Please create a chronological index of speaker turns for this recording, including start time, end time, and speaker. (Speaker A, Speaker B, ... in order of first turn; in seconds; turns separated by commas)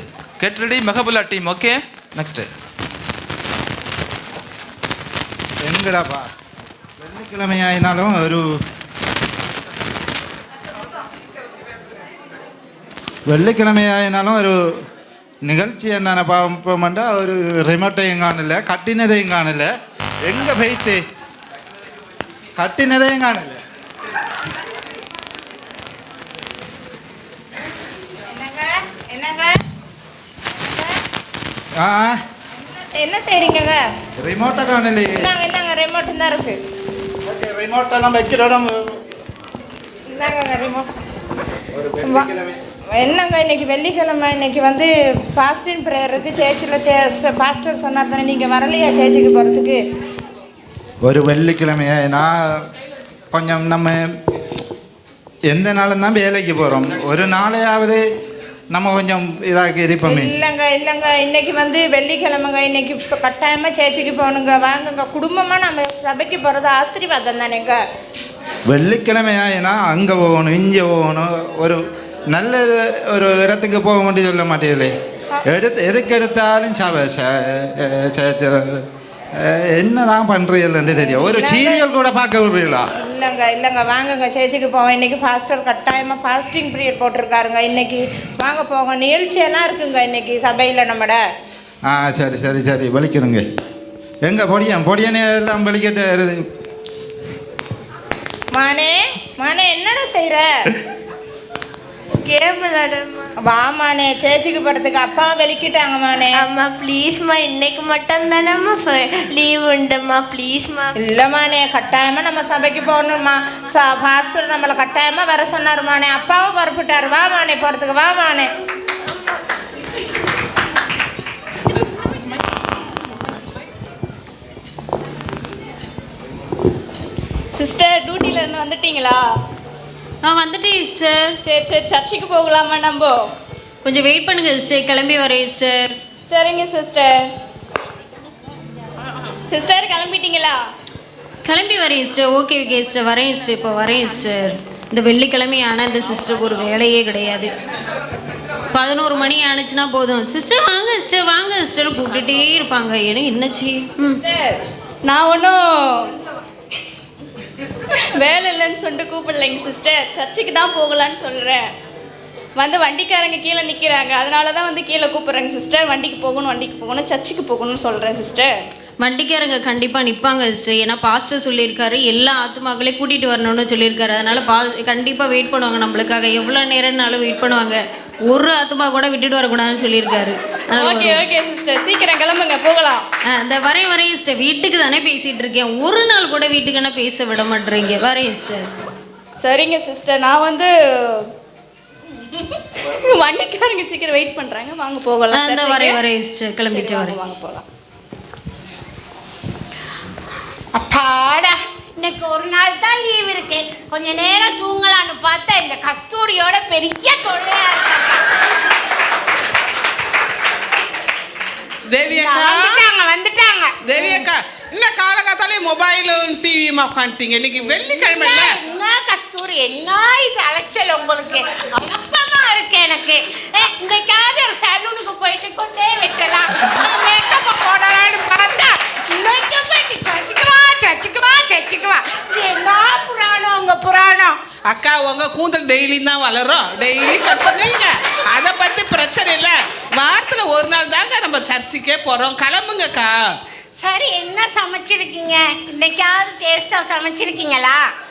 Speaker A: 0.4-2.5, Speaker B: 5.6-6.3, Speaker B: 7.0-8.6, Speaker B: 13.3-14.8, Speaker B: 15.4-19.7, Speaker B: 20.2-21.0, Speaker B: 22.6-23.6, Speaker C: 28.3-29.6, Speaker C: 30.6-30.9, Speaker B: 31.8-32.2, Speaker C: 32.6-33.8, Speaker B: 34.2-35.3, Speaker C: 35.1-36.6, Speaker B: 37.2-39.0, Speaker C: 40.1-40.9, Speaker B: 41.8-42.6, Speaker C: 42.9-49.8, Speaker B: 51.0-52.7, Speaker B: 53.3-54.1, Speaker B: 55.5-58.0, Speaker B: 58.7-60.3, Speaker C: 60.0-67.8, Speaker B: 68.7-71.8, Speaker B: 72.3-74.9, Speaker B: 75.5-82.9, Speaker C: 81.0-81.8, Speaker C: 83.0-91.2, Speaker B: 91.9-93.4, Speaker B: 94.2-96.5, Speaker C: 98.5-100.5, Speaker D: 102.2-103.3, Speaker C: 103.4-106.5, Speaker D: 106.3-110.9, Speaker C: 111.0-118.5, Speaker E: 127.5-129.2, Speaker F: 130.2-131.3, Speaker E: 131.4-133.2, Speaker F: 133.8-136.0, Speaker E: 136.3-137.2, Speaker E: 139.5-140.6, Speaker F: 141.4-147.5, Speaker F: 148.7-154.2, Speaker E: 154.2-154.5, Speaker E: 155.1-156.1, Speaker E: 158.2-161.7, Speaker E: 162.6-168.5, Speaker F: 169.0-181.3, Speaker E: 180.8-183.0, Speaker F: 183.3-188.7, Speaker E: 189.4-191.3, Speaker E: 192.9-196.0, Speaker F: 195.3-197.2, Speaker E: 196.7-197.7, Speaker G: 200.7-208.3, Speaker H: 211.9-212.9, Speaker G: 212.0-214.2, Speaker H: 213.8-218.6, Speaker G: 217.7-234.6, Speaker H: 234.7-243.2, Speaker G: 243.8-247.9